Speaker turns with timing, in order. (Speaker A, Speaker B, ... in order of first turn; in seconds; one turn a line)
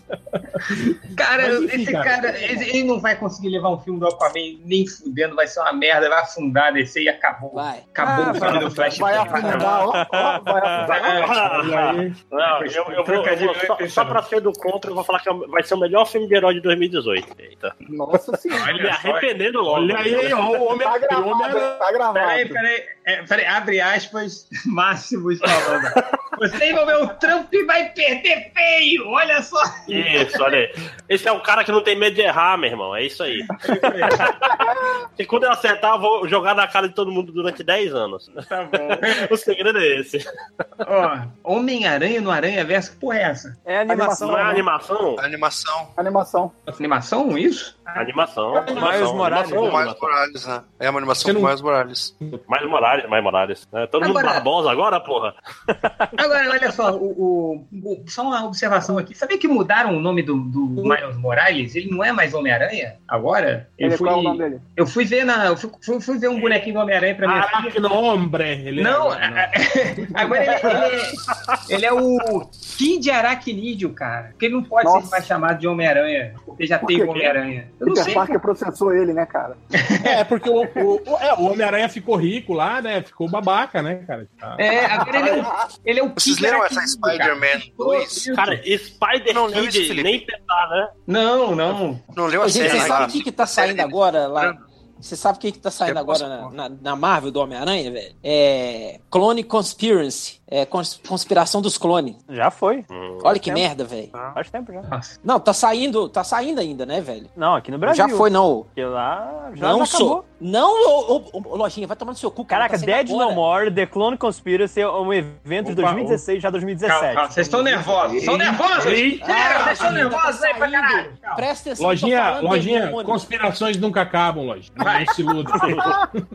Speaker A: 0.3-2.5
Speaker B: 1.1-9.8
Speaker C: 7.5-8.7
Speaker D: 8.0-8.8
Speaker A: 8.4-8.7
Speaker E: 8.9-11.2
Speaker C: 9.3-9.6
Speaker D: 9.4-10.8
Speaker B: 10.8-11.5
Speaker F: 10.8-17.7
Speaker A: 11.4-12.3
Speaker B: 12.4-14.2
Speaker E: 17.9-18.8
Speaker B: 18.5-19.3
Speaker F: 18.6-20.4
Speaker A: 19.6-21.9
Speaker E: 20.8-22.6
Speaker B: 22.1-30.5
Speaker F: 29.9-34.4
Speaker B: 33.5-34.3
Speaker E: 34.6-34.8
Speaker F: 35.2-40.2
Speaker B: 38.4-39.3
Speaker B: 40.8-43.6
Speaker D: 43.6-44.6
Speaker E: 43.9-44.6
Speaker F: 44.2-45.2
Speaker G: 45.2-45.9
Speaker E: 46.0-46.6
Speaker B: 46.8-48.1
Speaker F: 48.0-50.1
Speaker D: 48.5-49.9
Speaker A: 48.5-49.3
Speaker G: 49.5-52.1
Speaker A: 51.2-51.5
Speaker F: 52.5-55.4
Speaker B: 54.0-54.5
Speaker B: 56.2-67.8
Speaker E: 63.8-64.7
Speaker A: 67.2-69.5
Speaker B: 68.7-78.4
Speaker A: 70.0-70.9
Speaker E: 74.8-75.3
Speaker E: 76.8-77.3
Speaker E: 77.8-79.6
Speaker B: 79.8-80.2
Speaker A: 80.0-85.2
Speaker B: 84.6-88.6
Speaker E: 85.0-85.7
Speaker G: 86.2-88.3
Speaker F: 88.3-90.9
Speaker G: 89.3-90.2
Speaker B: 91.1-92.0
Speaker G: 92.1-94.5
Speaker C: 92.4-102.2
Speaker F: 92.6-92.9
Speaker B: 92.7-93.1
Speaker G: 95.8-96.5
Speaker D: 102.3-102.9
Speaker F: 102.9-103.5
Speaker C: 103.2-104.1
Speaker D: 104.3-104.9
Speaker B: 104.9-105.1
Speaker C: 105.2-107.3
Speaker D: 107.3-110.2
Speaker C: 107.8-108.7
Speaker C: 109.6-113.4
Speaker D: 112.5-117.7
Speaker A: 115.6-116.2
Speaker B: 116.8-121.5
Speaker A: 118.2-120.1
Speaker C: 119.2-123.3
Speaker A: 121.8-126.1
Speaker B: 124.8-125.8